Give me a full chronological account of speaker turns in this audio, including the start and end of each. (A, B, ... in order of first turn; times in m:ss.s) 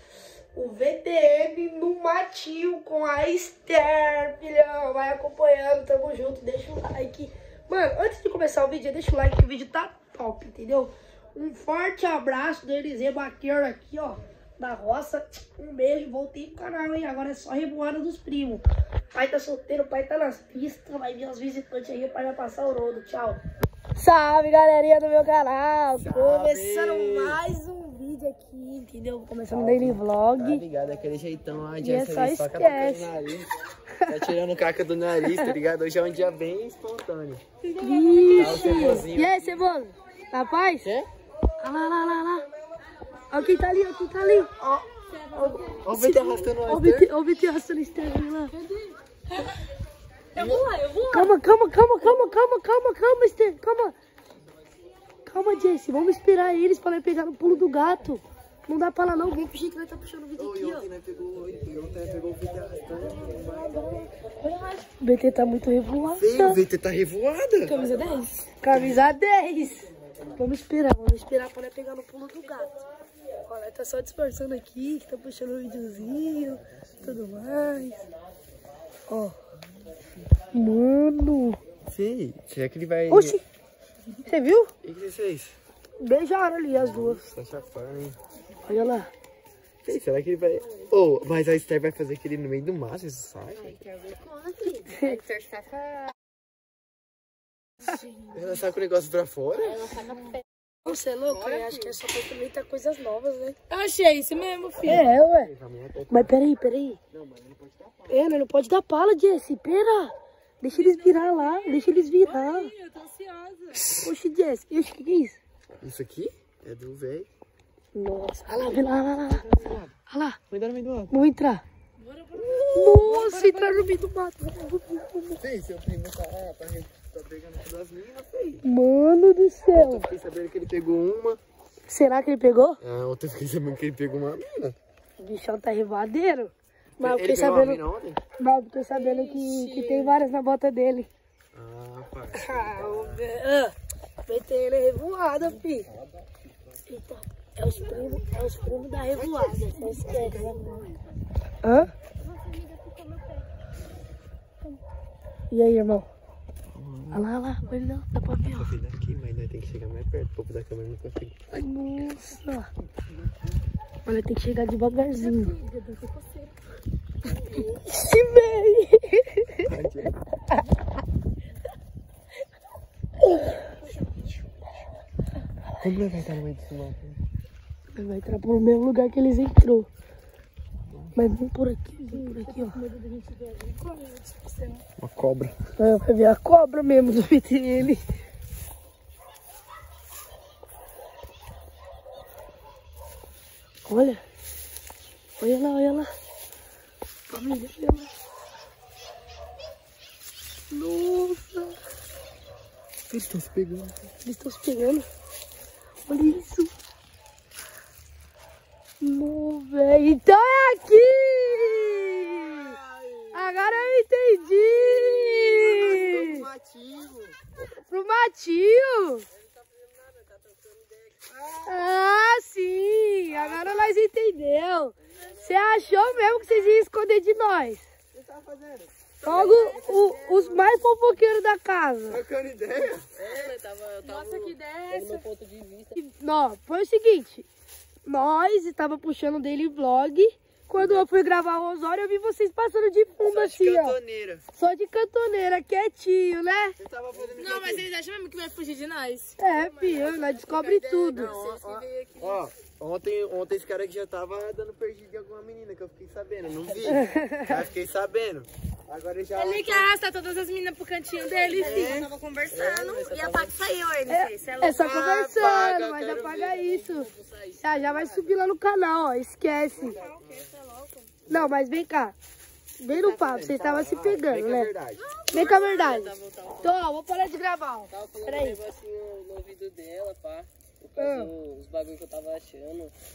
0:00.5-0:23.4 A
0:24.0-0:30.6 A
0:26.0-0:27.4 B
0:29.5-0:33.5 B
0:31.8-0:33.1 A
0:34.1-0:37.4 B
0:35.2-0:35.5 A
0:37.8-0:38.8 C
0:37.8-0:40.9 A
0:38.3-0:39.4 B
0:41.6-0:42.4 A
0:43.3-0:44.5 A
0:44.6-0:44.9 B
0:45.1-0:45.8 C
0:45.3-0:48.5 A
0:45.8-0:47.1 B
0:48.6-0:49.4 C
0:50.4-0:50.6 B
0:50.4-0:51.3 C
0:51.1-0:53.9 A
0:55.2-1:00.9 A
1:00.4-1:04.1 B
1:04.4-1:06.6 A
1:06.1-1:07.8 B
1:07.6-1:12.8 A
1:08.7-1:09.0 B
1:13.4-1:18.0 A
1:19.1-1:19.3 A
1:20.5-1:21.6 A
1:21.9-1:23.4 B
1:23.1-1:23.4 A
1:24.2-1:24.7 A
1:24.8-1:25.6 B
1:26.0-1:27.2 A
1:26.7-1:28.2 B
1:28.7-1:29.1 A
1:29.8-1:33.8 B
1:33.6-1:36.1 C
1:34.9-1:35.2 A
1:38.3-1:40.1 B
1:39.7-1:40.4 C
1:40.8-1:43.7 A
1:41.3-1:41.8 B
1:43.7-1:45.0 C
1:44.8-1:45.5 A
1:44.8-1:46.3 B
1:46.1-1:47.0 A
1:47.1-1:48.2 B
1:48.1-1:52.7 A
1:51.1-1:53.7 C
1:54.0-1:55.4 A
1:55.8-1:57.3 B
1:57.9-2:00.4 A
1:59.3-1:59.9 B
2:00.5-2:01.2 B
2:01.1-2:01.6 A
2:02.0-2:03.9 C
2:02.7-2:05.4 A
2:05.4-2:08.6 B
2:08.6-2:10.1 A
2:09.7-2:11.4 B
2:11.9-2:12.8 A
2:12.8-2:14.7 B
2:15.2-2:17.8 A
2:17.0-2:18.2 B
2:18.4-2:21.1 A
2:18.9-2:20.1 D
2:21.5-2:23.2 B
2:22.3-2:23.7 A
2:24.2-2:25.9 A
2:26.9-2:30.7 A
2:29.1-2:31.0 B
2:30.0-2:30.5 C
2:31.6-2:31.9 A
2:32.2-2:33.5 C
2:35.5-2:36.1 A
2:36.7-2:37.2 B
2:37.1-2:38.7 A
2:38.5-2:41.5 B
2:41.5-2:42.7 A
2:44.0-2:45.5 A
2:45.2-2:46.5 C
2:47.4-2:49.7 A
2:49.6-2:50.2 B
2:53.3-2:53.6 A
2:55.8-2:57.2 B
2:57.9-2:59.9 A
3:01.1-3:02.8 A
3:02.3-3:04.8 C
3:05.0-3:05.6 B
3:05.8-3:08.0 A
3:13.8-3:14.2 A
3:15.4-3:16.1 A
3:17.3-3:18.1 A
3:20.7-3:21.8 A
3:23.1-3:24.0 B
3:24.2-3:25.0 A
3:26.0-3:26.7 A
3:29.0-3:32.8 A
3:31.6-3:34.0 B
3:33.3-3:36.4 A
3:34.6-3:37.4 B
3:37.6-3:39.2 A
3:39.3-3:41.2 D
3:41.3-3:41.8 B
3:41.6-3:47.9 A
3:43.4-3:43.8 D
3:45.1-3:46.5 D
3:48.1-3:49.5 B
3:49.2-3:50.9 D
3:49.2-3:52.2 A
3:52.1-3:53.1 B
3:53.1-3:56.0 D
3:54.0-3:55.2 C
3:56.0-3:57.4 A
3:58.0-4:04.0 A
4:03.2-4:04.4 B
4:04.5-4:06.7 A
4:06.8-4:07.9 B
4:07.3-4:09.4 C
4:09.4-4:11.3 A
4:09.4-4:12.4 D
4:11.2-4:19.9 B
4:16.9-4:17.5 A
4:19.3-4:24.9 C
4:21.5-4:23.5 B
4:21.7-4:22.0 D
4:24.1-4:27.1 A
4:24.7-4:26.0 B
4:25.7-4:28.4 D
4:27.6-4:30.0 A
4:29.8-4:31.1 C
4:30.0-4:30.4 D
4:31.3-4:32.2 A
4:32.8-4:34.7 A
4:32.9-4:35.0 B
4:35.1-4:36.8 D
4:35.2-4:35.4 C
4:35.3-4:38.6 A
4:37.9-4:42.9 D
4:41.0-4:41.3 A